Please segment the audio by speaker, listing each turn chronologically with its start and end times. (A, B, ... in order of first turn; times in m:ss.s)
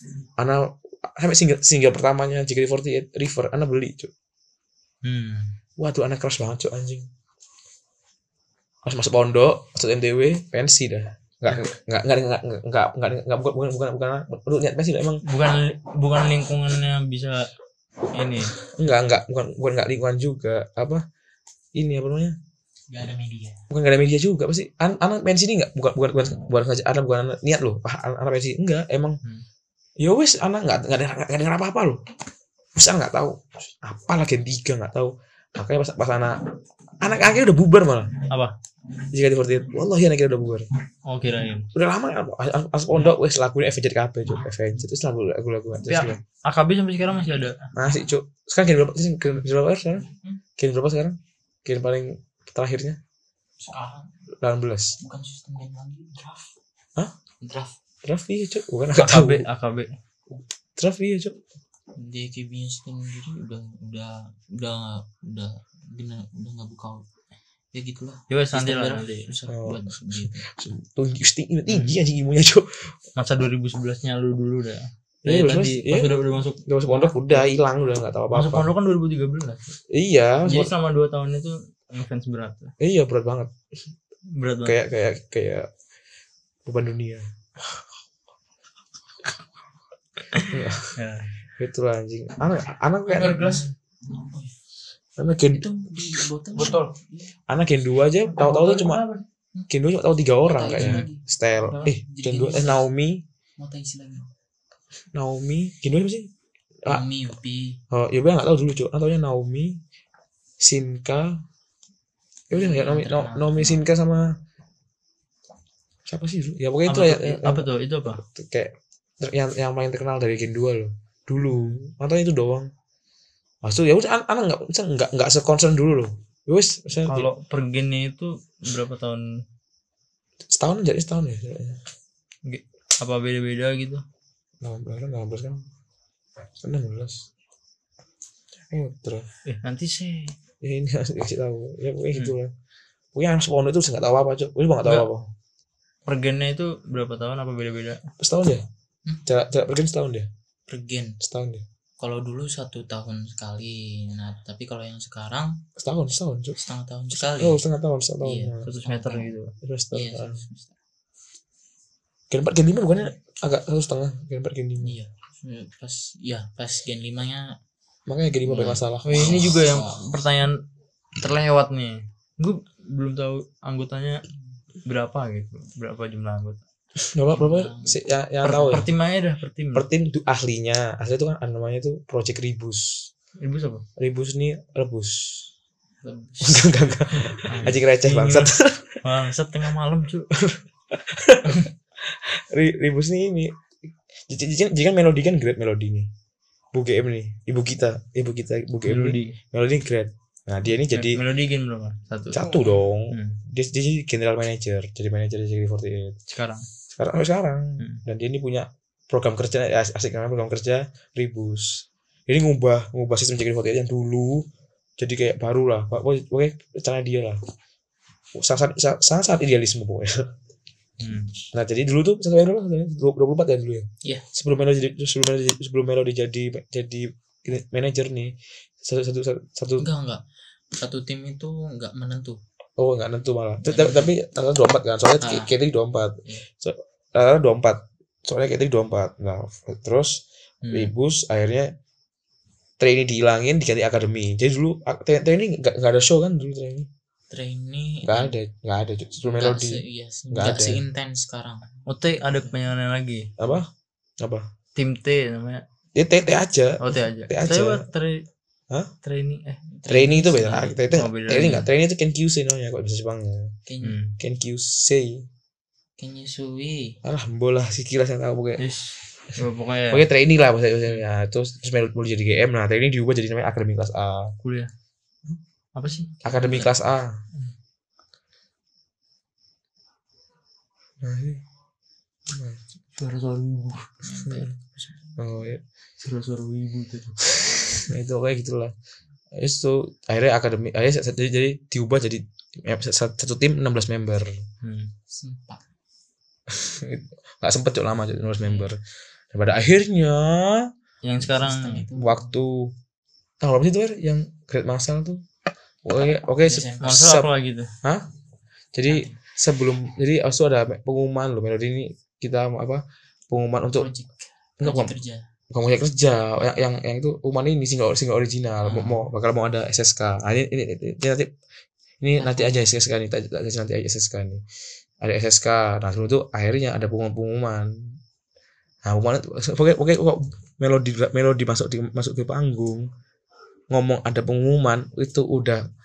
0:00.4-0:04.1 A
0:05.0-0:05.5 B
0:05.8-0:07.1 A
0:08.8-0:15.2 A
0:15.2-0:17.5 B
0:18.1-0:18.6 B
0:18.7-0:21.0 A
0:21.8-0:22.4 A
0:22.9-0:23.6 C
0:23.7-0:29.2 A
0:30.0-0:32.0 A
0:32.8-0:36.4 A
0:37.0-0:38.2 A
0:39.1-0:40.7 A
0:41.1-0:41.7 B
0:41.7-0:46.2 A
0:45.9-0:47.7 B
0:47.8-0:50.1 A
0:50.1-0:50.4 C
0:50.6-0:53.0 A
0:53.6-0:54.1 C
0:54.4-0:55.0 A
0:55.0-0:56.5 C
0:57.4-0:57.8 C
0:58.0-0:59.5 A
0:59.0-0:59.9 B
1:00.8-1:01.4 A
1:02.0-1:07.0 C
1:07.7-1:10.5 C
1:08.3-1:09.3 B
1:09.5-1:12.9 A
1:11.7-1:12.0 B
1:13.2-1:17.4 B
1:15.2-1:16.2 A
1:16.7-1:18.7 A
1:18.3-1:19.7 B
1:19.9-1:20.7 A
1:20.4-1:22.7 B
1:22.8-1:23.5 A
1:24.4-1:24.8 B
1:24.6-1:25.7 A
1:26.6-1:27.2 A
1:30.3-1:31.3 B
1:30.5-1:31.0 A
1:31.6-1:33.6 A
1:33.1-1:33.6 B
1:33.3-1:34.5 C
1:35.2-1:35.6 A
1:35.5-1:37.3 C
1:36.6-1:36.9 B
1:37.5-1:39.0 A
1:38.3-1:39.2 B
1:39.7-1:43.2 A
1:40.4-1:42.8 C
1:40.7-1:41.0 B
1:43.6-1:44.3 C
1:45.1-1:46.3 A
1:46.9-1:47.8 C
1:47.9-1:49.8 A
1:50.6-1:51.4 A
1:52.5-1:53.8 C
1:52.5-1:54.3 A
1:56.1-2:02.7 A
1:56.9-1:58.2 B
2:03.6-2:07.3 A
2:07.1-2:09.2 B
2:10.5-2:11.8 A
2:12.5-2:14.0 B
2:14.6-2:15.6 A
2:16.6-2:17.2 A
2:18.7-2:19.3 A
2:19.5-2:20.3 B
2:20.6-2:22.5 A
2:23.1-2:25.3 A
2:26.1-2:28.1 B
2:28.2-2:28.6 A
2:29.3-2:30.3 A
2:30.7-2:31.2 C
2:31.2-2:31.6 A
2:32.0-2:35.6 C
2:35.8-2:36.6 A
2:36.6-2:37.6 C
2:37.1-2:38.7 A
2:38.2-2:39.4 C
2:38.6-2:39.5 B
2:39.6-2:40.4 A
2:39.9-2:40.8 C
2:42.3-2:45.0 A
2:44.8-2:47.5 C
2:48.1-2:49.5 A
2:48.5-2:50.1 C
2:49.0-2:50.6 B
2:51.2-2:54.2 B
2:54.8-2:56.6 B
2:57.0-2:58.9 A
2:57.3-2:58.0 C
2:58.4-2:59.9 B
2:59.7-3:03.1 A
3:03.4-3:03.8 B
3:04.0-3:05.5 A
3:06.0-3:06.9 C
3:06.4-3:09.0 A
3:07.4-3:08.5 B
3:09.0-3:10.3 B
3:10.3-3:13.5 A
3:14.3-3:16.1 A
3:16.7-3:21.2 A
3:18.9-3:19.4 B
3:20.9-3:22.5 B
3:22.3-3:26.2 A
3:23.1-3:23.4 B
3:26.3-3:26.7 B
3:26.9-3:34.5 A
3:35.0-3:37.4 A
3:38.4-3:40.3 A
3:41.0-3:41.3 B
3:41.5-3:49.9 A
3:49.8-3:50.2 C
3:50.7-3:52.4 C
3:52.8-4:00.2 A
3:53.6-3:54.1 C
3:55.2-3:55.5 C
4:00.6-4:00.9 C
4:00.7-4:01.7 A
4:02.8-4:06.9 A
4:07.3-4:08.4 C
4:08.0-4:10.8 A
4:09.2-4:12.5 C
4:11.9-4:13.3 B
4:13.4-4:13.7 A
4:14.2-4:14.5 A
4:14.8-4:15.6 B
4:16.0-4:17.9 A
4:16.8-4:18.2 B
4:19.0-4:19.6 B
4:19.7-4:20.8 C
4:19.9-4:23.5 A
4:20.9-4:21.7 B
4:23.7-4:24.0 C
4:23.8-4:24.2 B
4:24.2-4:25.2 A
4:26.0-4:27.0 C
4:27.0-4:28.6 A
4:28.6-4:30.1 B
4:29.9-4:34.4 A
4:34.4-4:34.7 B
4:35.8-4:36.7 B
4:36.2-4:37.2 A
4:41.0-4:41.4 A
4:42.3-4:42.6 A
4:43.0-4:43.9 B
4:44.0-4:45.1 C
4:44.2-4:44.5 A
4:45.2-4:45.6 A
4:46.0-4:47.3 B
4:47.8-4:48.7 A
4:49.4-4:54.3 A
4:54.6-4:54.9 B
4:55.1-4:55.6 C
4:56.5-4:58.8 A
4:58.4-4:58.7 C
4:59.3-5:00.7 A
5:01.0-5:01.9 B
5:01.2-5:02.4 C
5:02.0-5:02.7 A
5:03.4-5:05.2 A
5:05.8-5:07.3 A
5:06.4-5:07.1 C
5:06.8-5:07.7 B
5:08.7-5:13.9 A
5:08.9-5:09.2 C
5:13.8-5:15.2 C
5:14.6-5:15.0 A
5:15.5-5:21.3 A
5:18.6-5:19.1 C
5:22.0-5:24.4 A
5:22.2-5:22.8 C
5:25.0-5:27.7 A
5:28.8-5:32.9 A
5:33.7-5:35.6 A